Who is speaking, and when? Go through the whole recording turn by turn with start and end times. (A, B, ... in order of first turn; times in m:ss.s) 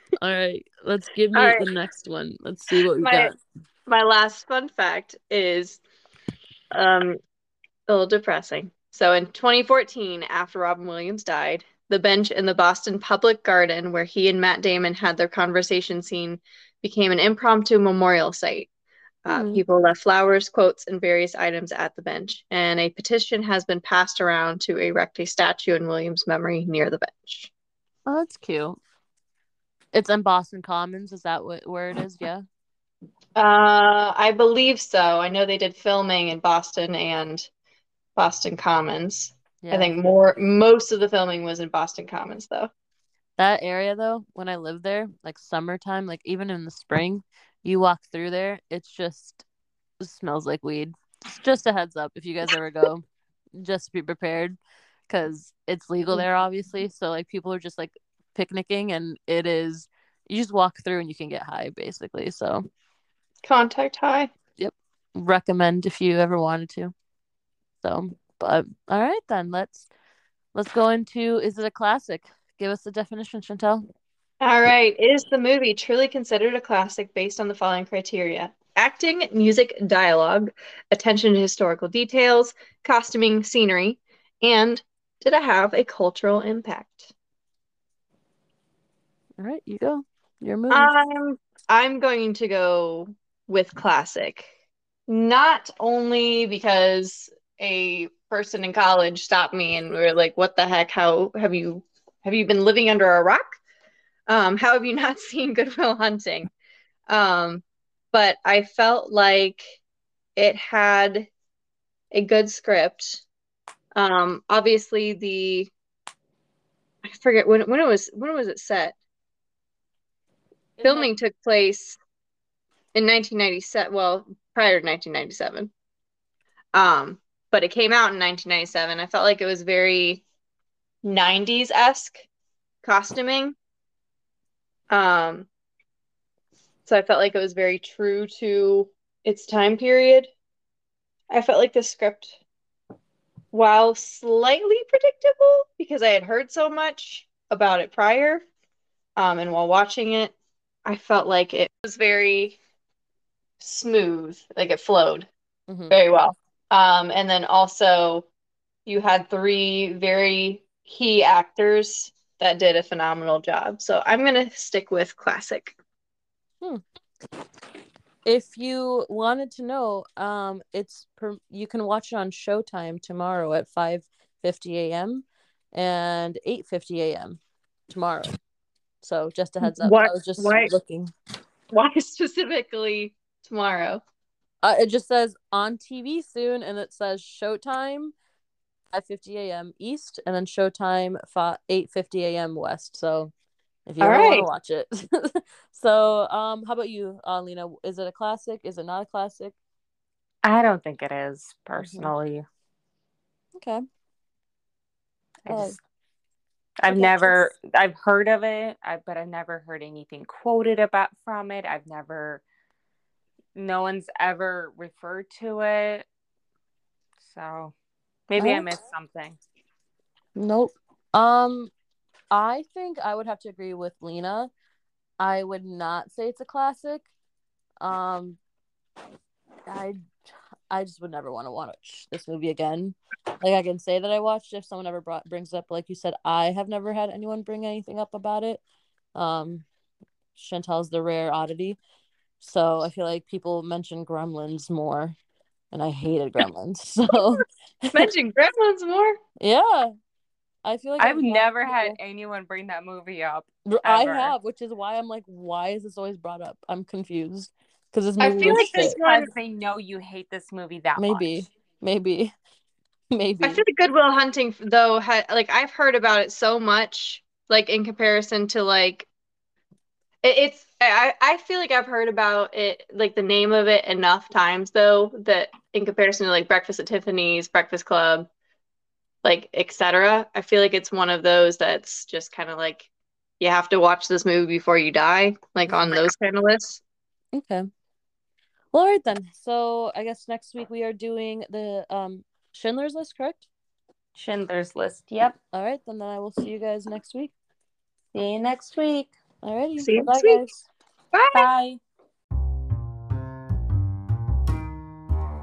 0:00.2-0:03.4 A
0:01.3-0:01.7 B
0:03.0-0:03.3 B
0:03.9-0:05.8 B
0:06.7-0:07.2 B
0:07.9-0:18.7 B
0:19.2-0:27.5 B
0:19.3-0:19.6 A
0:28.1-0:28.8 A
0:29.9-0:32.4 A
0:33.4-0:37.5 B
0:38.2-0:42.7 B
0:39.6-0:39.9 A
0:43.4-0:49.4 A
0:50.0-0:54.6 A
0:55.1-1:02.6 A
1:03.4-1:04.3 B
1:04.6-1:06.9 A
1:07.8-1:09.9 A
1:10.6-1:13.9 A
1:14.4-1:27.1 B
1:29.4-1:31.0 A
1:30.7-1:34.5 B
1:35.1-1:43.6 B
1:44.3-1:46.5 B
1:47.1-1:49.8 B
1:50.4-1:51.3 B
1:52.1-1:53.2 B
1:54.0-1:55.7 B
1:57.0-1:59.0 B
2:00.8-2:01.1 C
2:00.8-2:02.0 B
2:02.9-2:05.7 B
2:06.7-2:10.2 B
2:11.0-2:12.2 B
2:12.8-2:13.6 B
2:14.9-2:15.5 B
2:16.9-2:20.3 B
2:21.3-2:22.4 B
2:23.5-2:28.4 B
2:29.2-2:30.3 B
2:30.9-2:32.6 B
2:33.6-2:35.3 B
2:35.7-2:36.0 A
2:35.9-2:38.3 B
2:38.9-2:45.8 B
2:48.2-2:58.4 A
2:59.0-3:01.1 A
2:59.6-3:00.7 B
3:01.7-3:04.0 B
3:04.6-3:08.1 A
3:08.9-3:13.3 A
3:13.9-3:19.6 A
3:14.0-3:14.5 B
3:20.4-3:22.4 C
3:21.8-3:22.1 A
3:23.6-3:23.8 A
3:25.5-3:25.8 C
3:25.5-3:25.8 A
3:26.8-3:32.4 C
3:26.9-3:27.5 A
3:33.6-3:36.1 C
3:37.2-3:37.8 C
3:38.3-3:39.4 C
3:38.4-3:38.7 A
3:40.4-3:41.7 A
3:42.3-3:44.5 A
3:45.2-3:47.1 A
3:47.8-3:48.4 A
3:49.7-3:58.6 A
3:59.2-3:59.7 A
4:00.4-4:01.8 A
4:02.4-4:05.2 A
4:05.7-4:08.1 A
4:07.9-4:09.2 B
4:09.4-4:09.9 A
4:10.6-4:12.0 A
4:11.0-4:14.3 C
4:13.7-4:19.0 A
4:18.2-4:19.3 B
4:18.4-4:21.4 C
4:21.0-4:22.3 A
4:23.1-4:23.6 A
4:23.4-4:29.1 B
4:30.2-4:38.3 B
4:39.2-4:42.9 B
4:43.4-4:46.8 B
4:47.3-4:47.7 A
4:48.7-4:53.5 A
4:54.2-4:55.4 C
4:55.5-4:57.3 A
4:58.1-4:59.1 C
4:59.4-5:00.7 A
4:59.8-5:00.4 B
5:01.1-5:01.5 B
5:01.3-5:01.8 C